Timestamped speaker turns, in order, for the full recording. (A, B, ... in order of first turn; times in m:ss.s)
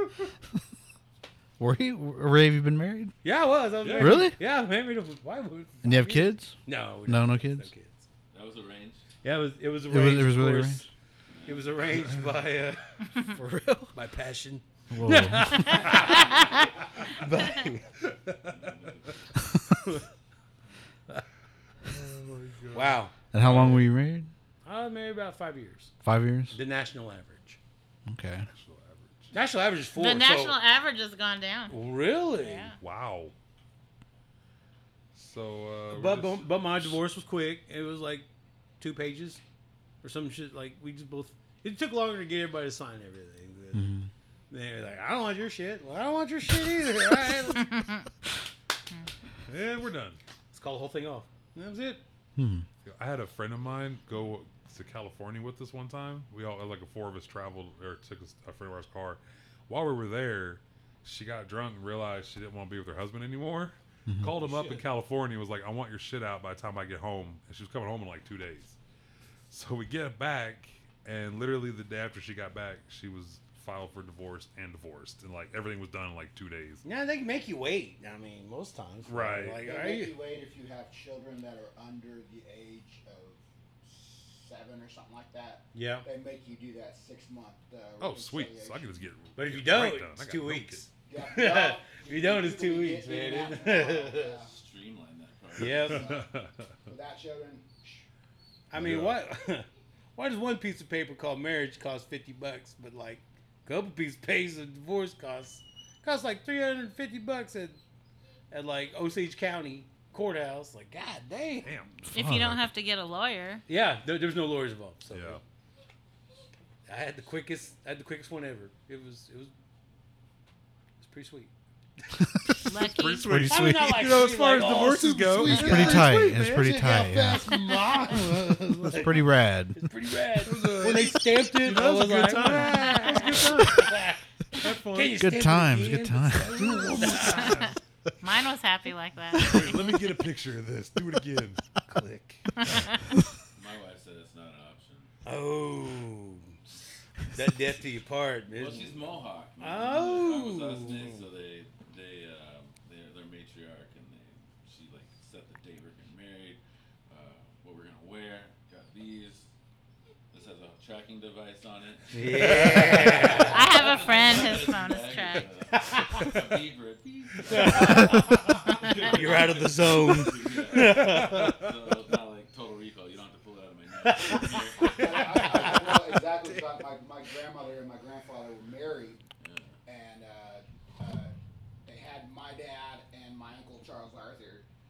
0:01.6-0:03.1 A
0:03.2-0:08.0 B
0:03.8-0:04.3 C
0:04.0-0:04.4 A
0:05.8-0:07.7 A
0:08.3-0:09.0 D
0:09.2-0:10.9 B
0:09.9-0:10.9 A
0:11.3-0:11.8 D
0:11.4-0:17.9 B
0:14.9-0:15.8 A
0:15.7-0:16.1 C
0:18.0-0:18.7 C
0:18.4-0:19.2 D
0:21.9-0:23.9 C
0:22.7-0:23.7 B
0:23.3-0:24.3 A
0:24.6-0:25.9 B
0:26.0-0:26.6 A
0:26.5-0:27.6 B
0:28.1-0:28.5 A
0:28.5-0:29.4 C
0:29.3-0:30.6 B
0:29.9-0:31.8 E
0:31.7-0:32.7 B
0:32.4-0:32.8 E
0:32.8-0:33.3 C
0:35.1-0:37.0 C
0:35.9-0:38.3 B
0:38.8-0:39.4 B
0:40.0-0:44.0 B
0:43.7-0:44.1 A
0:44.5-0:47.9 B
0:49.5-0:50.2 C
0:50.5-0:52.0 B
0:52.4-0:52.6 A
0:52.8-1:08.8 C
1:04.1-1:04.3 A
1:04.4-1:04.8 D
1:09.5-1:16.8 C
1:16.8-1:20.1 B
1:19.0-1:19.6 C
1:19.6-1:29.0 F
1:25.7-1:26.0 B
1:28.0-1:30.8 C
1:29.4-1:34.4 B
1:31.0-1:34.5 F
1:34.4-1:36.1 D
1:35.6-1:36.1 B
1:35.7-1:36.7 C
1:35.9-1:36.3 F
1:36.8-1:38.0 F
1:38.7-1:47.8 B
1:38.7-1:39.2 C
1:48.5-1:51.7 B
1:51.6-1:52.1 C
1:52.1-1:53.6 E
1:52.1-1:52.6 A
1:53.7-1:55.4 B
1:55.1-1:55.4 C
1:56.9-1:59.5 B
2:01.0-2:01.5 B
2:02.6-2:03.3 E
2:02.7-2:06.2 C
2:03.2-2:04.1 A
2:03.4-2:17.7 B
2:05.4-2:07.5 A
2:08.8-2:09.8 A
2:10.4-2:14.0 C
2:14.6-2:15.3 C
2:15.2-2:16.8 A
2:16.4-2:17.8 C
2:18.2-2:19.8 E
2:19.4-2:21.6 C
2:21.8-2:22.4 B
2:23.6-2:25.1 D
2:25.2-2:26.8 B
2:27.3-2:29.1 B
2:28.5-2:39.5 D
2:29.6-2:31.2 B
2:40.3-2:56.0 D
2:42.1-2:43.9 B
2:42.3-2:43.2 C
2:43.4-2:45.5 E
2:45.7-2:46.6 B
2:47.4-2:51.6 B
2:50.8-2:51.7 C
2:54.0-2:56.3 B
2:54.9-2:59.2 F
2:59.4-2:59.8 D
2:59.8-3:01.3 F
3:01.8-3:04.6 F